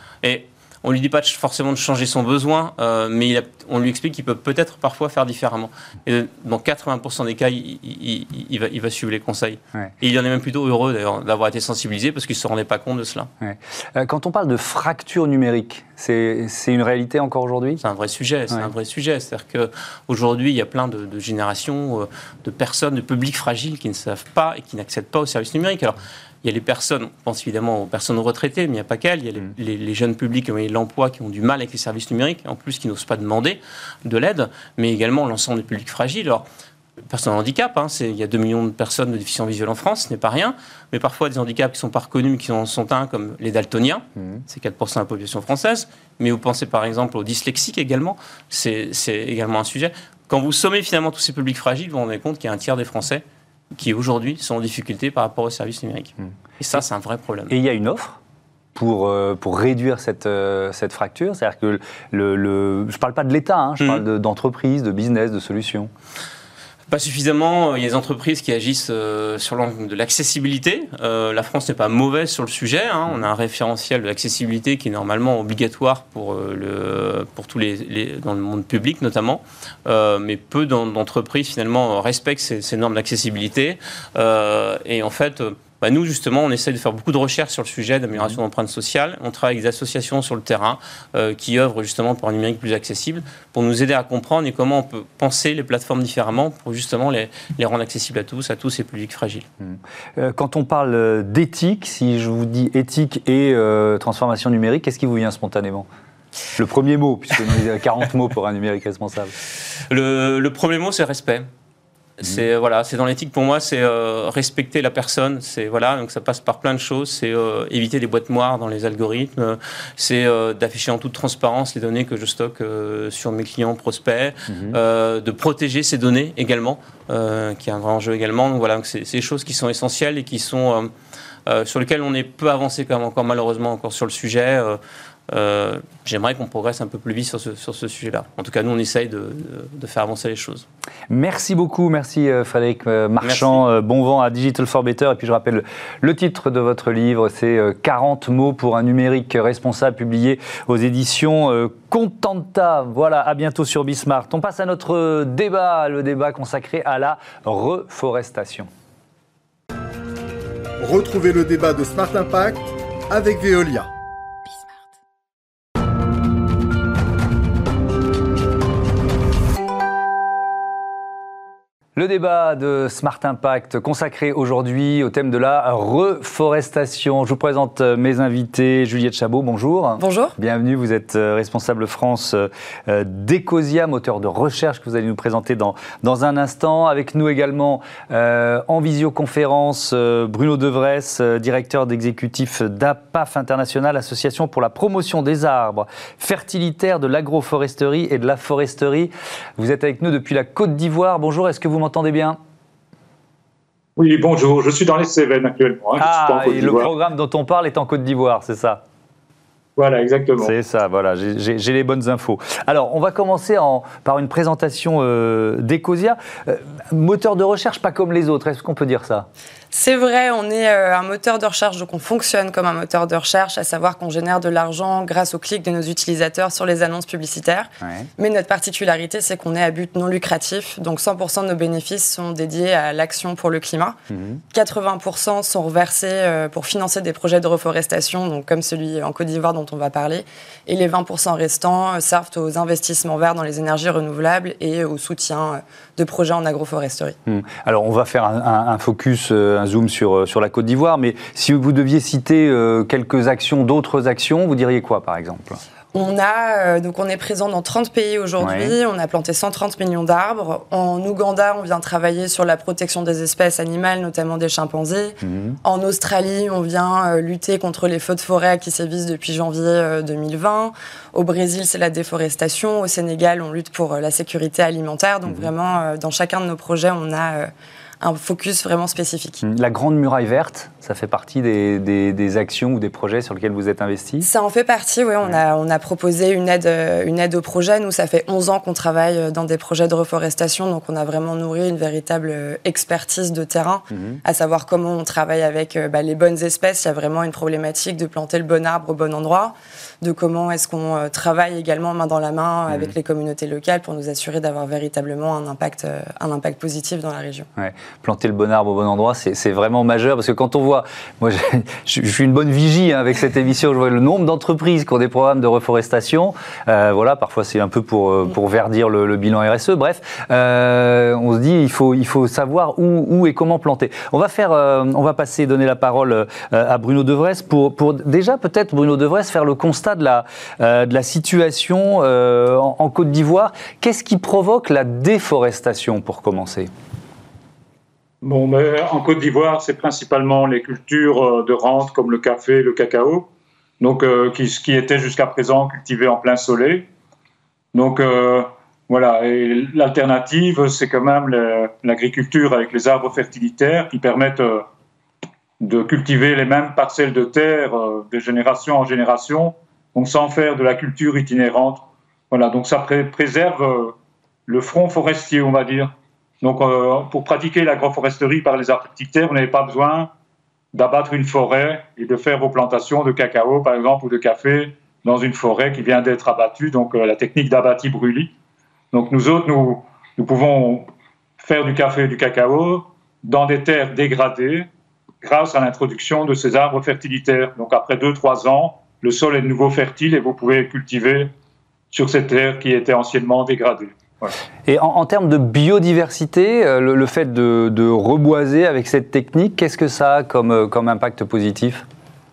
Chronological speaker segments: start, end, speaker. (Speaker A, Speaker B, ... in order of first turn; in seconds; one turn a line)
Speaker A: 0.2-13.3
Speaker B: 13.4-17.8
Speaker A: 17.8-36.5
Speaker A: 37.1-57.5
Speaker B: 57.5-58.2
Speaker B: 58.8-65.9
Speaker A: 66.9-99.5
Speaker B: 99.6-105.9
Speaker B: 106.6-109.3
Speaker A: 109.9-111.5
Speaker A: 112.2-130.9
Speaker B: 124.5-124.8
Speaker A: 131.5-140.7
Speaker B: 141.1-158.7
Speaker A: 143.2-143.6
Speaker C: 160.8-163.9
Speaker B: 172.0-202.4
Speaker D: 180.0-180.3
Speaker E: 204.0-206.9
Speaker B: 206.0-208.8
Speaker E: 209.8-210.5
Speaker B: 210.4-219.3
Speaker D: 219.7-234.0
Speaker B: 227.8-228.1
Speaker B: 234.1-234.4
Speaker D: 234.5-247.2
Speaker B: 247.3-255.6
Speaker D: 255.9-277.5
Speaker B: 258.4-258.8
Speaker B: 265.2-265.6
Speaker D: 278.0-279.4
Speaker B: 279.4-284.3
Speaker D: 284.2-307.5
Speaker B: 293.9-294.2
Speaker B: 307.6-336.7
Speaker E: 338.2-343.3
Speaker E: 343.8-346.9
Speaker E: 347.7-354.6
Speaker E: 355.6-363.9
Speaker E: 364.5-370.1
Speaker E: 370.7-378.3
Speaker E: 378.9-380.9
Speaker E: 381.4-384.7
Speaker E: 385.2-391.3
Speaker E: 391.9-394.4
Speaker B: 394.7-401.9